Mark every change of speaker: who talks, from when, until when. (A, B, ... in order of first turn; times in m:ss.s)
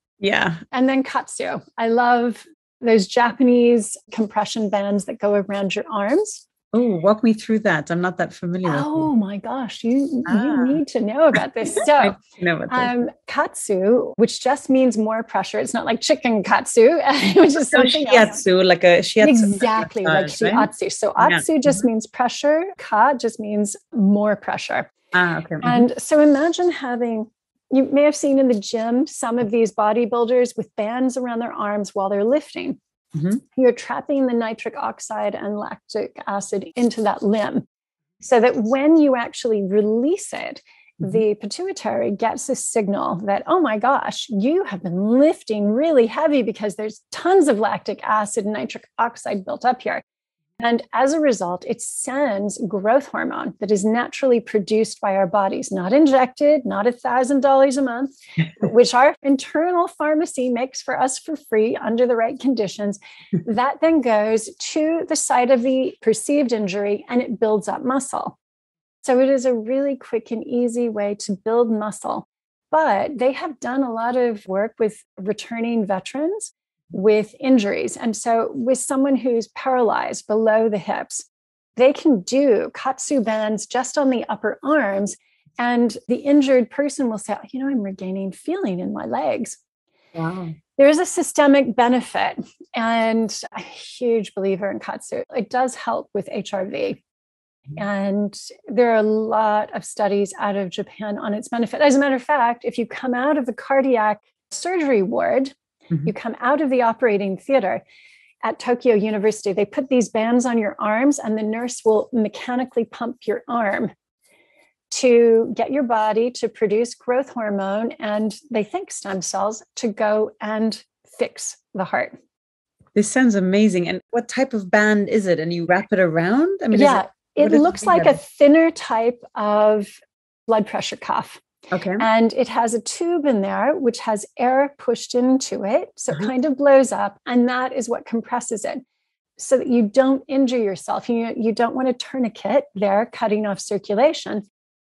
0:00.2-0:00.6 A
0:00.7-0:06.4 B
0:06.7-0:09.1 A
0:08.6-0:18.4 B
0:10.3-0:10.8 A
0:12.0-0:12.9 A
0:17.7-0:20.7 A
0:19.2-0:24.9 B
0:21.2-0:21.4 A
0:25.1-0:25.8 A
0:25.6-0:32.8 B
0:33.5-0:37.6 B
0:38.2-0:50.0 B
0:50.6-1:08.4 B
1:09.0-1:21.3 B
1:21.8-1:29.6 B
1:30.2-1:30.6 A
1:30.8-1:37.0 B
1:37.8-1:47.8 B
1:48.4-1:53.9 B
1:54.9-2:02.1 B
2:03.0-2:08.1 A
2:06.7-2:09.9 B
2:10.5-2:11.4 B
2:11.7-2:12.1 A
2:12.0-2:18.8 B
2:19.4-2:24.4 B